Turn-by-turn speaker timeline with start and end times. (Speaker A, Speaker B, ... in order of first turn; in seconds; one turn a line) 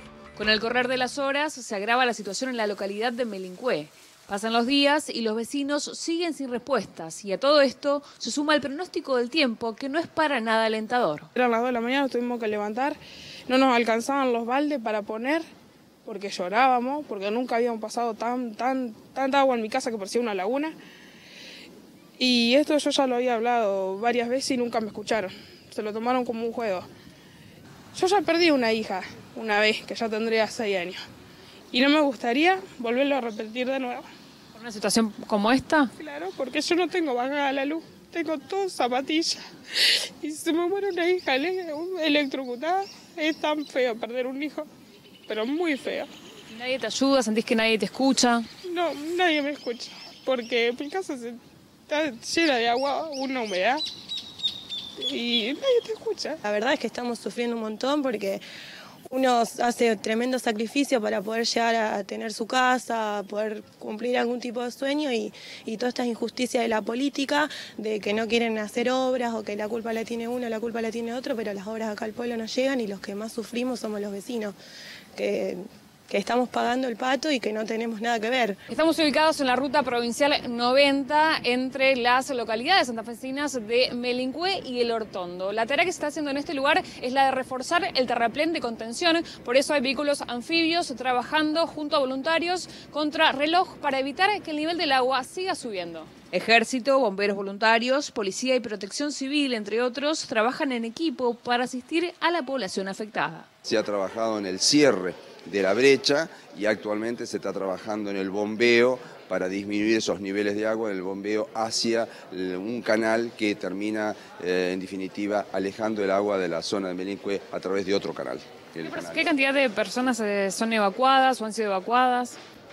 Speaker A: 0.4-11.2
Speaker B: 11.3-15.4
Speaker B: 16.0-20.8
Speaker B: 22.2-26.9
Speaker B: 27.9-31.0
Speaker B: 31.7-34.1
Speaker A: 34.6-35.8
Speaker B: 36.0-44.7
Speaker B: 45.3-46.1
Speaker A: 46.5-48.4
Speaker B: 48.6-53.8
Speaker B: 55.0-56.4
Speaker C: 56.5-58.4
Speaker C: 59.1-74.5
Speaker C: 75.1-78.6
Speaker A: 78.7-103.5
Speaker D: 103.6-119.3
Speaker A: 118.9-122.3